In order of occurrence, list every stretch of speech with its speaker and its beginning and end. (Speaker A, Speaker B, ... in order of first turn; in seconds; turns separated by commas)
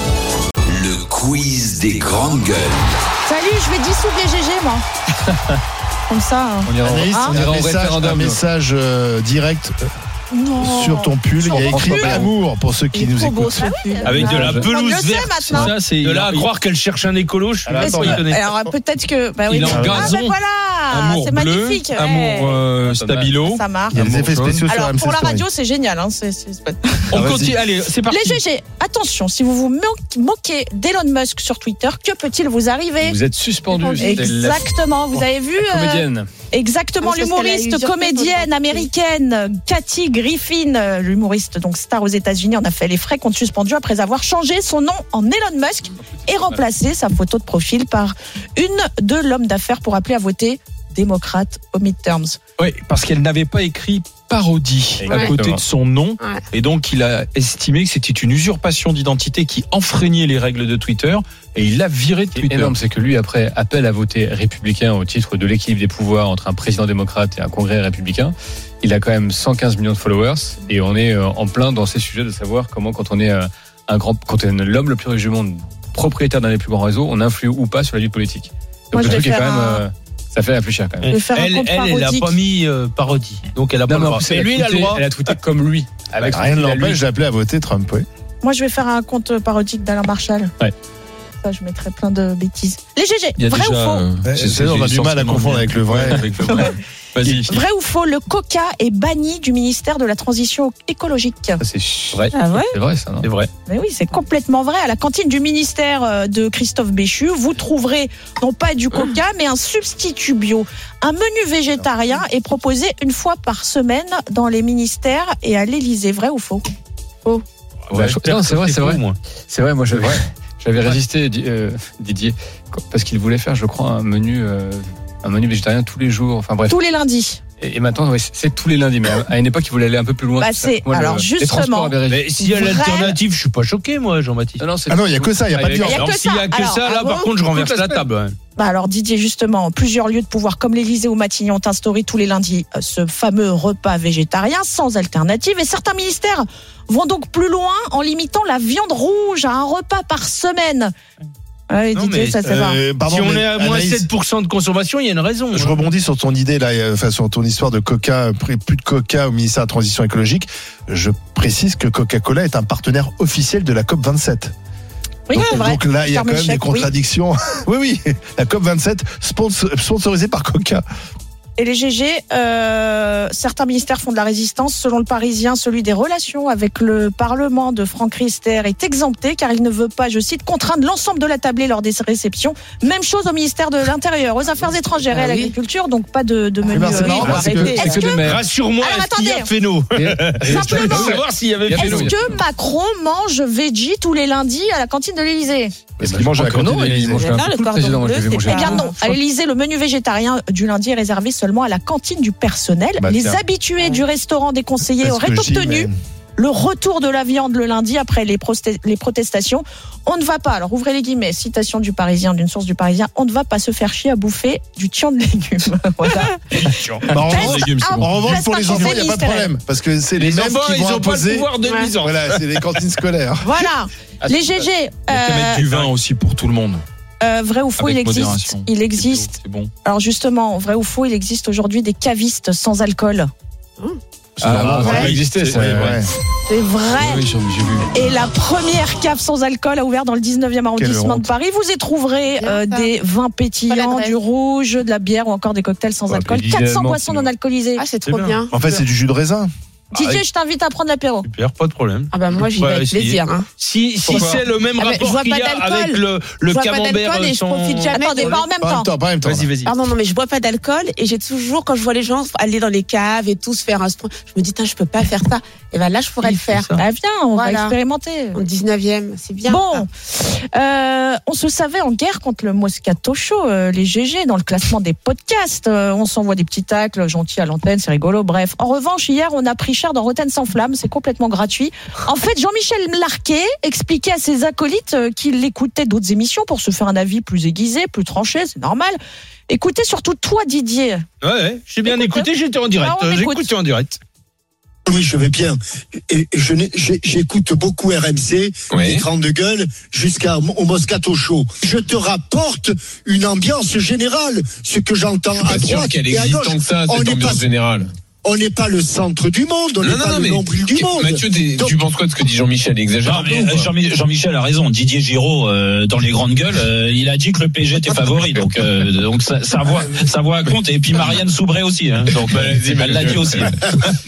Speaker A: 0.7-2.8, Speaker B: 3.2-4.8, Speaker B: 6.1-7.4, Speaker C: 6.7-8.4, Speaker D: 6.8-9.9, Speaker B: 10.3-12.3, Speaker D: 10.6-13.7, Speaker C: 11.5-12.4, Speaker B: 13.3-15.7, Speaker E: 13.4-13.7, Speaker C: 14.0-14.7, Speaker F: 14.0-18.4, Speaker G: 15.5-16.5, Speaker D: 17.6-18.7, Speaker B: 17.8-22.6, Speaker G: 19.5-20.3, Speaker D: 19.7-20.1, Speaker G: 20.9-24.6, Speaker C: 22.8-23.4, Speaker B: 23.4-24.1, Speaker D: 23.9-25.4, Speaker B: 24.6-27.2, Speaker D: 27.1-27.6, Speaker F: 27.1-28.2, Speaker B: 28.1-33.2, Speaker C: 33.0-36.3, Speaker E: 33.7-34.1, Speaker B: 34.0-52.4, Speaker E: 37.1-38.6, Speaker G: 52.6-62.7, Speaker C: 55.0-55.6, Speaker C: 62.4-81.1, Speaker B: 78.9-79.8, Speaker F: 81.0-85.1, Speaker B: 81.1-82.3, Speaker C: 83.8-87.0, Speaker D: 86.2-88.0, Speaker B: 88.4-90.5, Speaker B: 91.4-94.0, Speaker G: 93.4-97.5, Speaker D: 94.2-96.3, Speaker B: 97.5-101.6, Speaker C: 101.6-103.3, Speaker E: 102.3-102.7, Speaker F: 103.2-103.5, Speaker B: 103.7-116.6, Speaker F: 117.9-119.2, Speaker C: 117.9-126.8, Speaker B: 126.7-127.4, Speaker C: 127.6-132.9, Speaker B: 130.4-133.2, Speaker F: 132.1-134.6, Speaker C: 134.6-136.0, Speaker D: 134.9-136.0, Speaker B: 135.8-138.0, Speaker F: 135.9-138.3, Speaker B: 138.6-150.9, Speaker B: 151.7-152.8, Speaker F: 151.9-152.4, Speaker D: 152.4-154.1, Speaker F: 153.1-155.8, Speaker D: 155.5-164.5, Speaker B: 165.3-166.9, Speaker D: 165.3-170.8, Speaker B: 171.6-188.2, Speaker E: 185.1-185.5, Speaker D: 186.7-187.8, Speaker E: 186.7-187.9, Speaker C: 187.1-188.4, Speaker F: 188.2-192.1, Speaker B: 188.8-189.5, Speaker C: 189.9-192.2, Speaker B: 190.4-195.7, Speaker D: 196.0-197.4, Speaker C: 196.0-199.1, Speaker E: 197.2-198.9, Speaker H: 197.8-198.4, Speaker B: 198.5-219.6, Speaker D: 203.0-203.4, Speaker D: 205.0-205.9, Speaker D: 217.1-223.6, Speaker G: 217.5-218.3, Speaker F: 220.2-222.6, Speaker B: 223.4-225.6, Speaker G: 225.1-226.8, Speaker F: 225.3-225.9, Speaker B: 227.2-229.3, Speaker G: 227.8-229.7, Speaker B: 229.8-233.3, Speaker D: 234.4-236.1, Speaker C: 234.4-236.1, Speaker E: 234.8-235.1, Speaker B: 236.5-237.3, Speaker G: 237.0-237.9, Speaker B: 237.9-247.8, Speaker D: 240.8-241.3, Speaker E: 242.4-242.8, Speaker E: 243.7-244.1, Speaker C: 246.1-247.3, Speaker E: 247.8-248.5, Speaker H: 248.0-248.4, Speaker F: 248.0-248.8, Speaker D: 248.5-249.5, Speaker B: 249.9-251.2, Speaker F: 249.9-250.2, Speaker F: 251.2-258.4, Speaker E: 252.1-253.4, Speaker H: 252.1-253.4, Speaker H: 254.7-255.9, Speaker E: 255.2-255.9, Speaker H: 256.5-258.0, Speaker E: 256.8-258.2, Speaker B: 257.9-258.9, Speaker D: 258.6-259.5, Speaker F: 259.2-260.0, Speaker H: 259.6-265.4, Speaker E: 259.9-266.6, Speaker H: 266.2-266.6, Speaker F: 266.2-266.8, Speaker B: 266.8-268.4, Speaker E: 267.4-267.7, Speaker H: 268.4-269.8, Speaker B: 269.5-289.0, Speaker E: 269.5-269.8, Speaker B: 289.5-291.0, Speaker F: 291.2-294.0, Speaker B: 291.8-293.5, Speaker E: 294.9-307.4, Speaker I: 298.7-299.0, Speaker I: 305.3-307.9, Speaker E: 308.2-311.8, Speaker I: 309.8-313.7, Speaker A: 313.0-323.6, Speaker I: 320.5-321.2, Speaker I: 322.1-323.7